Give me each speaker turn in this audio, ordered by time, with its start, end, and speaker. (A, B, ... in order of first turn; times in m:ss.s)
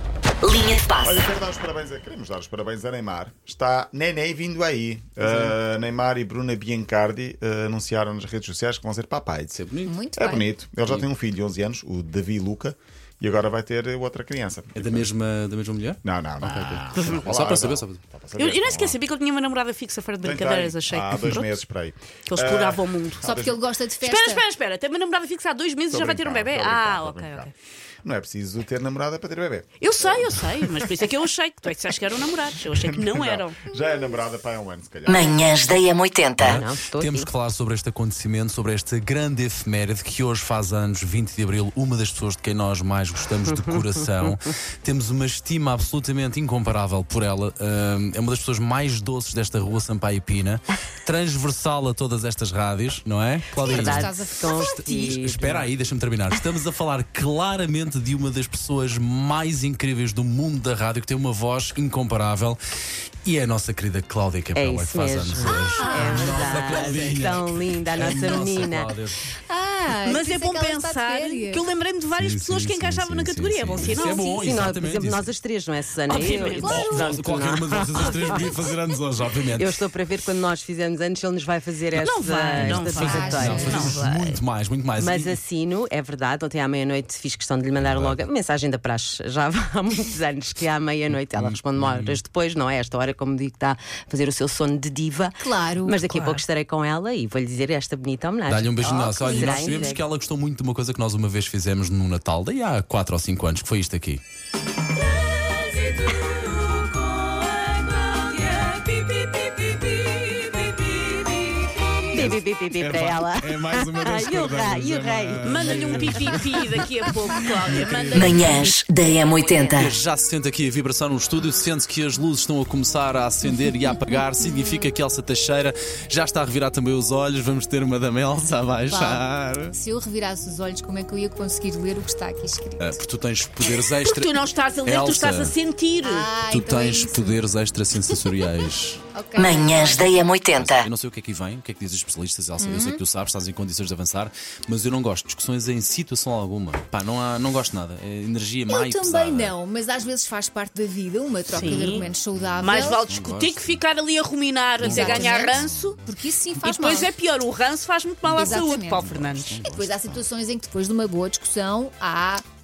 0:00.4-0:01.2 A
0:01.0-0:15.1 B
0:09.5-0:10.0 C
0:09.8-0:10.5 D
0:14.7-0:18.0 C
0:16.0-0:19.0 B
0:18.4-0:21.6 E
0:20.2-0:23.6 B
0:22.3-0:23.3 E
0:23.2-0:24.4 D
0:24.0-0:27.5 E
0:25.9-0:30.9 B
0:29.8-0:33.6 E
0:32.7-0:35.4 B
0:35.1-0:36.6 A
0:36.4-1:02.6 C
0:36.4-0:37.3 F
0:53.6-0:54.8 D
0:53.6-0:55.7 F
1:03.2-1:09.2 C
1:04.5-1:08.9 F
1:05.6-1:06.9 D
1:09.5-1:11.6 D
1:10.0-1:14.6 E
1:12.1-1:15.3 C
1:13.9-1:18.6 F
1:16.1-1:16.8 E
1:16.6-1:17.2 D
1:16.6-1:19.8 C
1:19.5-1:23.9 F
1:22.0-1:24.4 E
1:22.5-1:25.4 C
1:23.0-1:24.0 D
1:25.0-1:40.1 F
1:27.8-1:28.2 C
1:31.1-1:32.2 C
1:35.4-1:36.2 D
1:36.1-1:36.4 C
1:38.4-1:44.2 C
1:39.0-1:39.9 D
1:45.1-1:50.4 F
1:52.0-1:56.3 F
1:52.1-1:56.7 C
1:55.4-1:58.7 E
1:57.7-1:58.7 C
1:58.1-1:59.8 F
1:59.4-1:59.8 A
1:59.7-2:09.8 C
2:08.9-2:13.0 D
2:12.8-2:15.5 C
2:14.0-2:16.3 E
2:16.0-2:17.4 D
2:16.4-2:19.0 C
2:19.1-2:20.3 D
2:19.4-2:20.9 A
2:20.5-2:29.6 C
2:22.6-2:23.0 D
2:28.6-2:33.0 D
2:31.4-2:33.6 C
2:31.5-2:32.0 E
2:32.6-2:36.0 E
2:34.8-2:37.1 D
2:34.8-2:36.0 C
2:36.6-2:39.6 E
2:38.2-2:40.2 C
2:38.3-2:42.4 D